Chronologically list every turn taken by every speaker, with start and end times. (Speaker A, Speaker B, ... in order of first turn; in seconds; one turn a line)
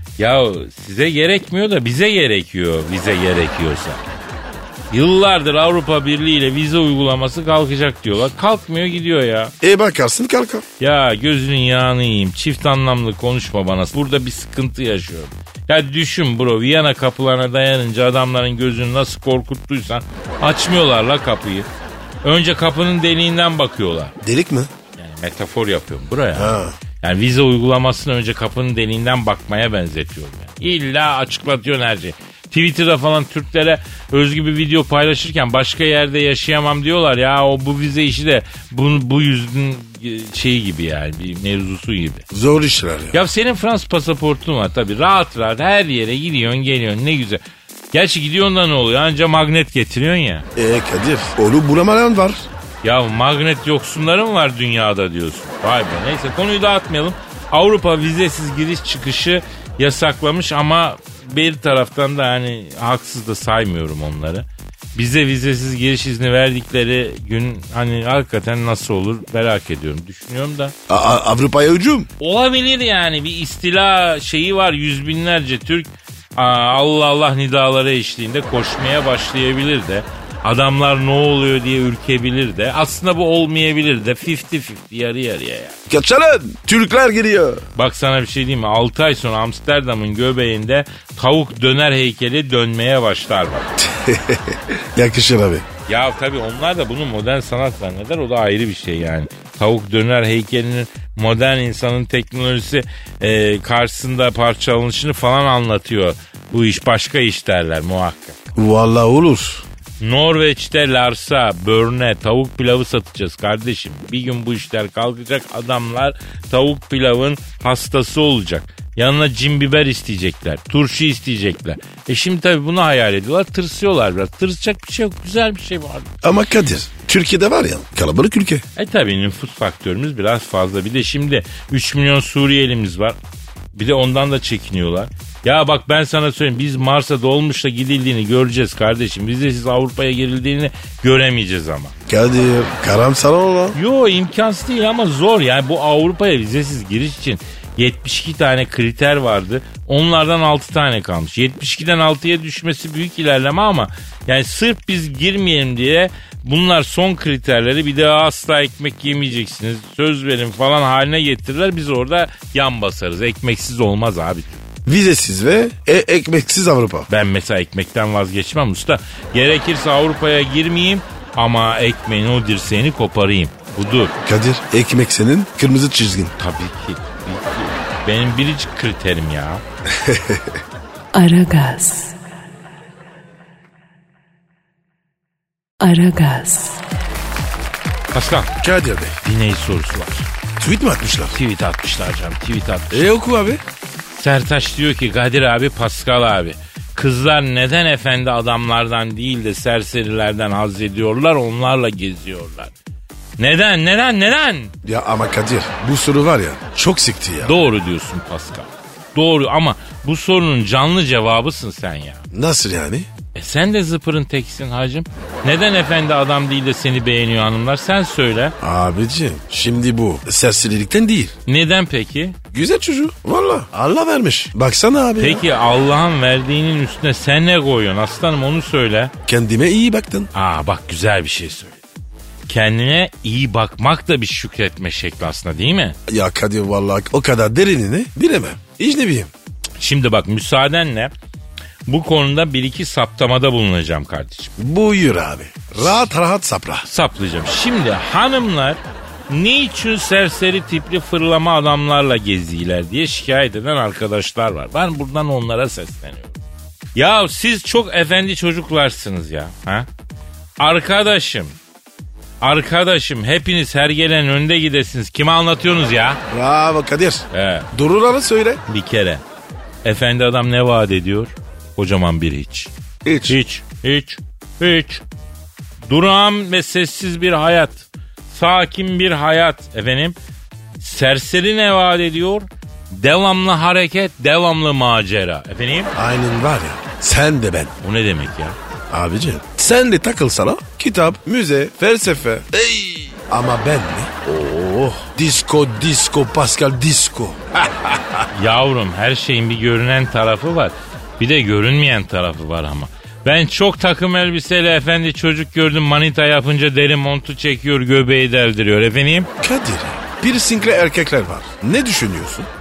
Speaker A: 0.2-4.0
Speaker A: 4.9-9.5
Speaker B: 9.6-10.7
Speaker A: 10.8-21.7
Speaker A: 22.2-24.1
Speaker B: 24.2-24.7
Speaker A: 24.9-42.2
Speaker B: 26.3-26.8
Speaker B: 42.3-43.2
Speaker A: 43.1-50.4
Speaker B: 50.5-52.5
Speaker A: 52.8-70.7
Speaker B: 70.9-72.1
Speaker A: 72.2-85.8
Speaker B: 85.9-87.6
Speaker A: 87.8-93.7
Speaker B: 93.8-95.7
Speaker A: 95.9-108.5
Speaker B: 108.5-109.6
Speaker A: 110.0-126.1
Speaker B: 126.2-128.6
Speaker A: 128.8-133.2
Speaker A: 133.7-141.9
Speaker B: 142.1-143.8
Speaker A: 143.7-164.6
Speaker B: 164.8-167.1
Speaker A: 167.1-174.1
Speaker B: 174.2-176.3
Speaker A: 176.4-179.6
Speaker B: 179.9-180.6
Speaker C: 181.1-182.1
Speaker C: 185.8-186.8
Speaker A: 188.1-188.5
Speaker B: 188.6-189.2
Speaker A: 189.2-190.3
Speaker B: 190.6-191.4
Speaker A: 191.3-193.1
Speaker B: 192.9-193.6
Speaker A: 194.1-202.7
Speaker A: 203.4-204.7
Speaker B: 204.8-207.5
Speaker A: 207.4-212.2
Speaker B: 212.3-213.1
Speaker A: 213.3-218.5
Speaker B: 218.6-221.3
Speaker A: 221.4-222.4
Speaker B: 222.5-225.4
Speaker A: 225.2-229.1
Speaker B: 229.3-230.3
Speaker A: 230.3-231.8
Speaker A: 232.5-235.9
Speaker B: 236.1-239.3
Speaker A: 239.8-241.1
Speaker A: 241.9-244.5
Speaker B: 244.6-246.9
Speaker A: 246.9-256.4
Speaker A: 256.9-259.9
Speaker A: 260.6-261.6
Speaker A: 262.4-266.2
Speaker B: 266.3-268.6
Speaker A: 267.3-267.7
Speaker A: 268.7-269.2
Speaker A: 269.8-272.7
Speaker B: 273.0-273.4
Speaker A: 273.2-275.0
Speaker A: 275.9-280.1
Speaker A: 280.8-285.9
Speaker B: 285.9-287.7
Speaker A: 287.8-288.6
Speaker B: 288.9-298.2
Speaker A: 298.3-309.3
Speaker B: 309.4-312.5